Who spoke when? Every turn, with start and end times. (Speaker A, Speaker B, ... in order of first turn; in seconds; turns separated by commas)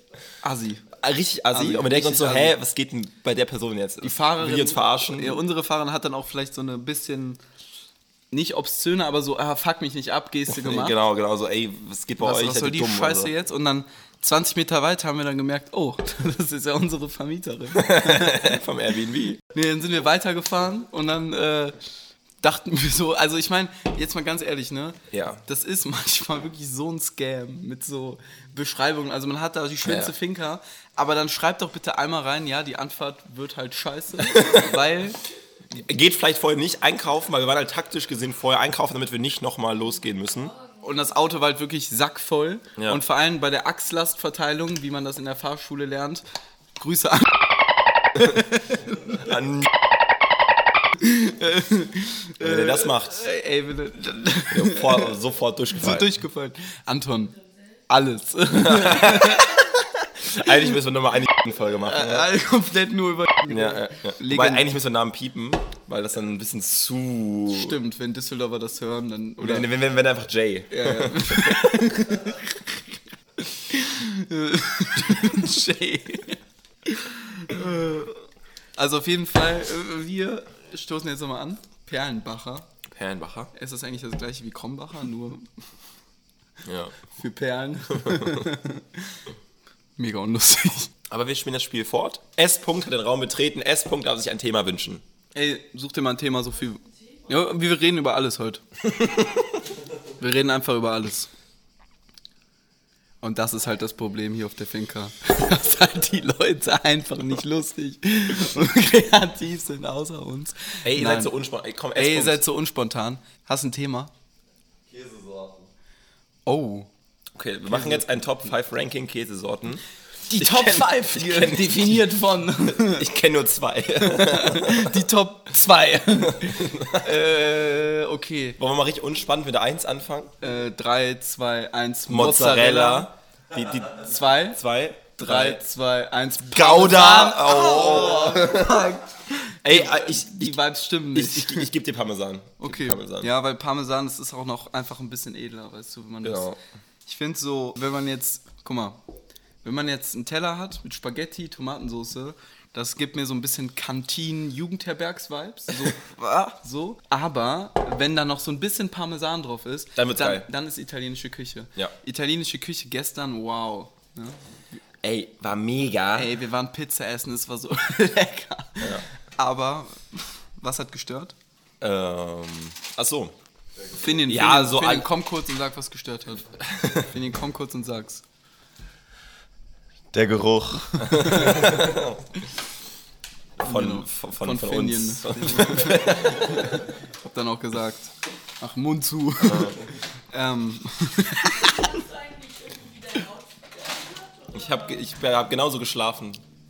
Speaker A: 0.4-0.9, Speaker B: 0.9-5.4, Speaker A: 1.5-2.6, Speaker A: 4.0-7.4, Speaker A: 8.3-11.0, Speaker B: 10.5-13.3, Speaker A: 12.2-18.6, Speaker B: 17.7-19.4, Speaker A: 19.5-21.8, Speaker A: 22.4-35.2, Speaker B: 25.1-25.4, Speaker B: 29.8-30.1, Speaker B: 34.3-34.7, Speaker B: 35.7-40.6, Speaker A: 40.8-46.3, Speaker B: 42.8-43.0, Speaker A: 46.8-47.6, Speaker A: 48.1-49.3, Speaker B: 49.1-49.7, Speaker A: 51.0-55.1, Speaker B: 52.4-53.2, Speaker B: 54.5-56.1, Speaker A: 55.7-57.4, Speaker A: 57.9-60.6, Speaker B: 58.5-59.6, Speaker B: 60.3-62.3, Speaker A: 61.8-64.7, Speaker B: 63.5-67.8, Speaker A: 67.5-69.7, Speaker B: 69.4-72.0, Speaker A: 70.7-72.8, Speaker A: 73.6-78.2, Speaker A: 78.8-82.7, Speaker B: 82.9-83.5, Speaker A: 83.5-85.5, Speaker B: 86.6-87.0, Speaker A: 87.1-89.2, Speaker B: 88.0-88.4, Speaker A: 90.0-90.9, Speaker B: 91.1-95.0, Speaker A: 95.3-98.6, Speaker A: 100.2-101.3, Speaker A: 103.2-111.3, Speaker B: 110.8-112.4, Speaker A: 112.0-114.1, Speaker C: 114.9-115.7, Speaker A: 116.5-116.9, Speaker B: 117.3-125.1, Speaker A: 117.7-118.1, Speaker A: 120.3-123.1, Speaker A: 124.0-128.6, Speaker B: 126.2-127.2, Speaker B: 128.6-130.3, Speaker A: 130.4-133.1, Speaker B: 132.1-135.6, Speaker A: 134.0-134.6, Speaker A: 135.2-141.7, Speaker B: 136.5-139.0, Speaker B: 139.6-143.3, Speaker A: 142.6-146.5, Speaker B: 146.2-146.6, Speaker A: 147.1-149.0, Speaker A: 149.6-164.4, Speaker B: 160.0-160.5, Speaker B: 165.0-166.3, Speaker A: 166.2-171.3, Speaker B: 168.8-169.1, Speaker B: 171.8-173.3, Speaker A: 174.0-178.2, Speaker B: 174.3-175.1, Speaker B: 176.7-177.1, Speaker C: 180.1-181.6, Speaker B: 181.0-182.4, Speaker A: 181.1-181.7, Speaker B: 183.6-186.8, Speaker A: 183.6-192.1, Speaker B: 189.4-189.8, Speaker B: 194.5-196.4